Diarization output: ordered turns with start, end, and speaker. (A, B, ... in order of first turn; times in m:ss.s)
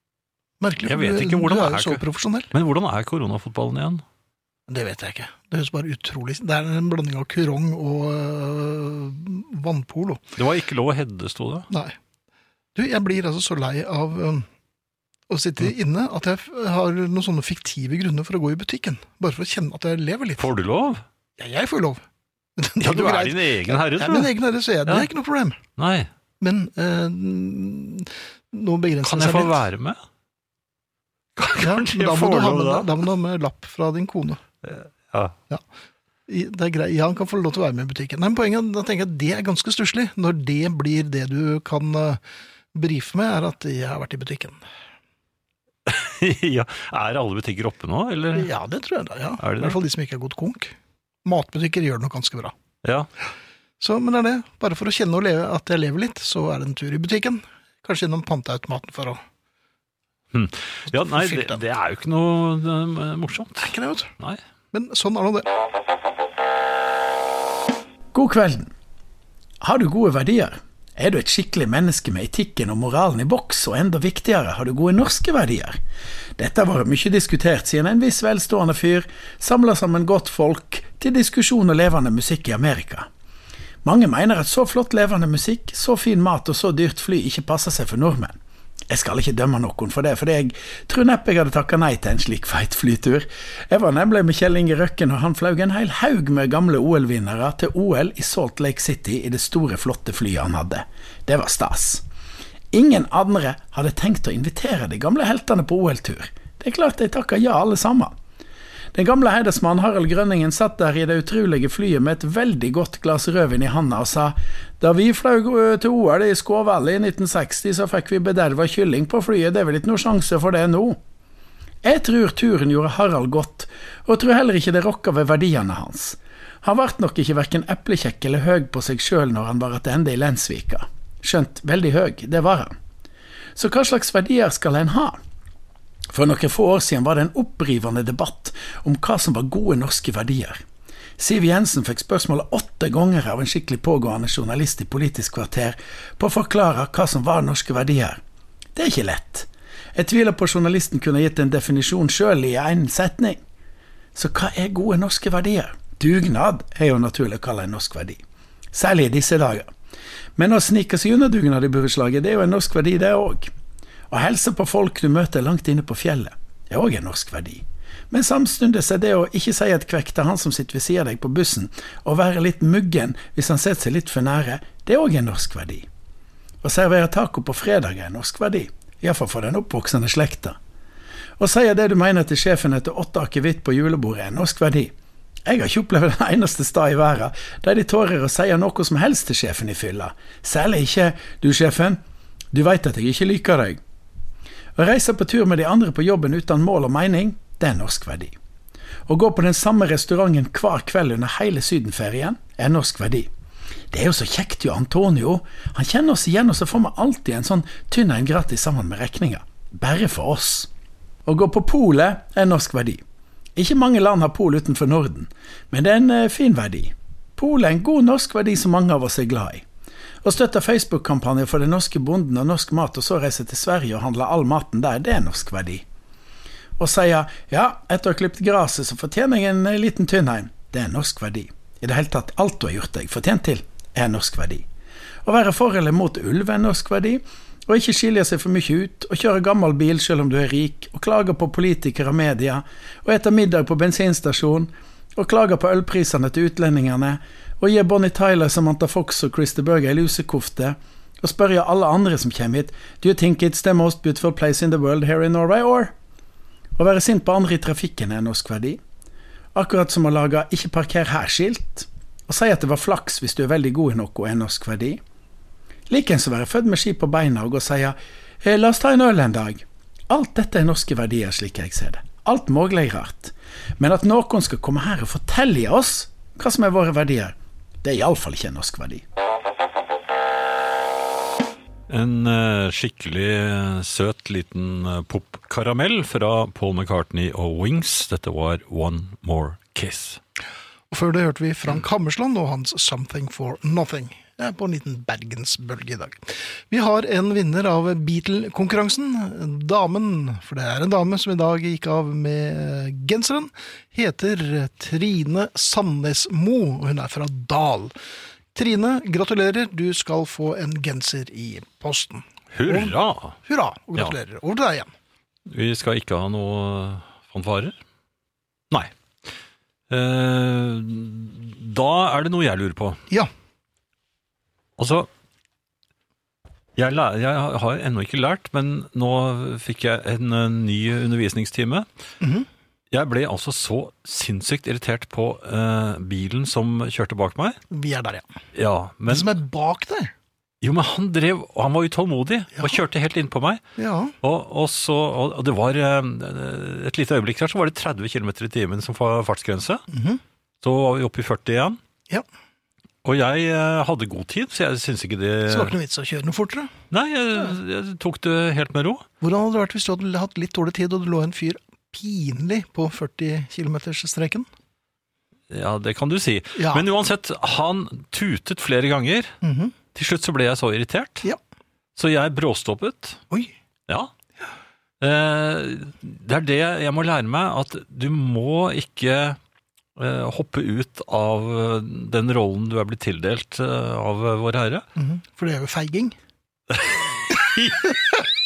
0:00.6-0:02.5 A
0:00.8-0:04.0 B
0:04.7-0:10.3 A
0:10.4-0:11.7 B
0:11.7-0:12.0 A
0:12.8-0:14.5 A
0:15.3-0:20.4 A
0:20.4-0:21.0 B
0:21.4-0:22.0 A
0:22.6-0:25.6 A
0:22.8-0:24.3 B
0:25.8-0:26.1 B
0:26.4-0:29.6 A
0:29.0-0:30.0 B
0:31.4-0:33.0 B
0:31.6-0:34.4 A
0:34.6-0:35.4 B
0:36.3-0:42.2 A
0:42.7-0:44.6 A
0:45.9-0:48.5 B
0:48.3-0:52.5 A
0:49.4-0:49.8 B
0:52.8-0:53.1 B
0:53.8-0:59.2 A
1:00.3-1:04.4 B
1:00.9-1:01.6 A
1:03.6-1:04.1 A
1:04.7-1:05.5 A
1:08.1-1:08.7 C
1:09.6-1:15.8 C
1:16.4-1:23.1 C
1:23.8-1:28.4 C
1:28.9-1:42.0 C
1:42.7-1:48.1 C
1:48.9-2:01.0 C
2:01.8-2:12.7 C
2:13.6-2:15.2 C
2:16.1-2:20.6 C
2:21.2-2:28.2 C
2:28.8-2:33.4 C
2:34.2-2:38.2 C
2:38.7-2:39.7 C
2:40.4-2:43.5 C
2:44.1-2:55.9 C
2:56.6-3:00.6 C
3:01.4-3:04.9 C
3:05.5-3:12.0 C
3:12.5-3:13.8 C
3:14.8-3:18.4 C
3:19.1-3:23.3 C
3:23.9-3:30.7 C
3:31.3-3:33.0 C
3:33.6-3:39.6 C
3:40.2-3:45.8 C
3:46.8-3:54.7 C
3:55.2-4:15.9 C
4:16.8-4:18.8 C
4:19.6-4:25.0 C
4:25.9-4:39.0 C
4:41.9-4:50.2 B
4:50.9-5:07.9 A
5:08.5-5:14.9 A
5:12.5-5:13.4 B
5:15.5-5:17.8 B
5:19.9-5:23.0 B
5:24.8-5:25.1 B
5:26.8-5:31.9 B
5:32.2-5:32.5 A
5:32.9-5:37.6 B
5:37.7-5:38.3 A
5:38.6-5:39.3 B
5:39.1-5:40.1 A
5:40.6-5:43.6 B
5:43.8-5:44.2 A
5:44.2-5:49.8 B
5:49.9-5:50.2 A
5:50.6-5:51.8 B
5:53.0-5:55.7 B
5:55.5-5:56.7 A
5:56.9-5:59.1 B
5:59.2-6:04.5 A
6:05.5-6:09.3 B
6:06.6-6:06.9 A
6:09.4-6:09.8 A
6:09.9-6:11.3 B
6:12.0-6:13.2 B
6:15.0-6:19.4 B
6:20.0-6:24.8 B
6:25.0-6:26.2 A
6:26.7-6:28.3 B